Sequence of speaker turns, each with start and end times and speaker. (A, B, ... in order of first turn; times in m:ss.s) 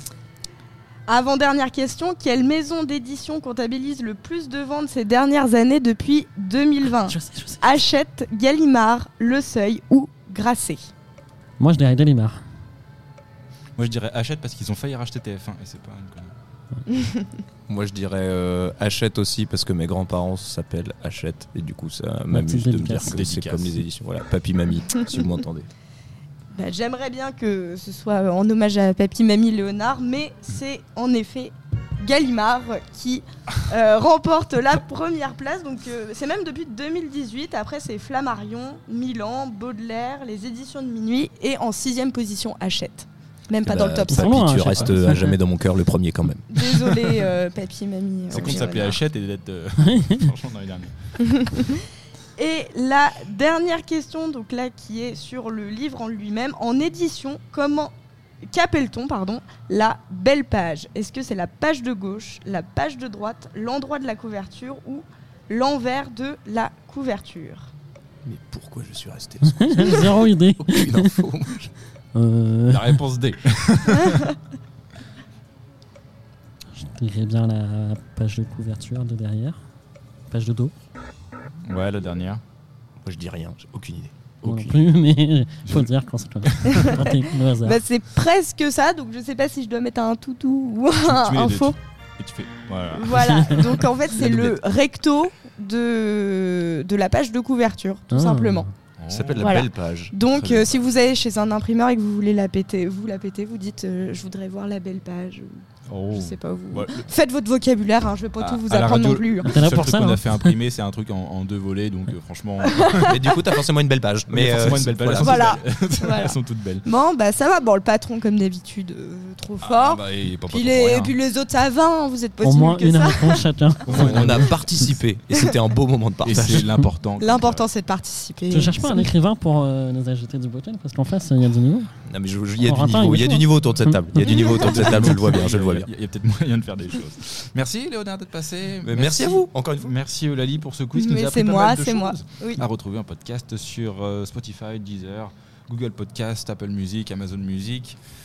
0:01.1-0:10.8 A
0:07.0-0:07.8 B
0:11.6-0:12.4 B
0:13.8-0:16.3 C
0:16.9-0:17.3 A
0:17.7-0:25.7 D
0:22.3-0:23.2 B
0:22.9-0:23.8 C
0:26.5-0:44.7 A
0:43.6-0:47.0 D
0:44.1-0:45.4 B
0:44.7-0:45.0 C
0:46.5-0:49.0 A
0:48.3-0:50.9 C
0:51.2-0:51.8 A
0:52.4-0:57.9 A
0:58.5-1:07.7 A
1:08.2-1:11.7 D
1:09.4-1:11.1 B
1:12.1-1:13.0 B
1:12.7-1:14.3 C
1:14.0-1:14.3 A
1:16.7-1:19.6 B
1:20.3-1:20.7 B
1:21.6-1:22.4 C
1:23.0-1:24.8 D
1:24.4-1:27.8 B
1:25.7-1:25.9 C
1:26.4-1:26.9 C
1:26.6-1:31.8 A
1:31.0-1:33.5 C
1:32.9-1:38.7 A
1:33.2-1:33.7 B
1:34.2-1:34.6 D
1:38.1-1:38.7 B
1:39.0-1:39.4 C
1:39.1-1:40.1 D
1:39.4-1:49.6 A
1:40.3-1:40.8 C
1:45.9-1:47.0 C
1:48.4-1:53.3 C
1:49.4-1:50.6 B
1:52.6-1:53.3 A
1:53.0-1:55.5 D
1:54.3-1:56.8 C
1:55.1-2:03.4 A
1:59.6-2:01.1 C
2:02.4-2:04.9 B
2:03.8-2:04.6 C
2:03.9-2:06.7 D
2:06.2-2:07.6 C
2:07.2-2:09.1 A
2:08.5-2:11.9 B
2:12.0-2:15.9 D
2:12.6-2:14.4 B
2:14.2-2:14.9 A
2:14.4-2:28.0 C
2:18.8-2:19.9 D
2:20.9-2:22.6 A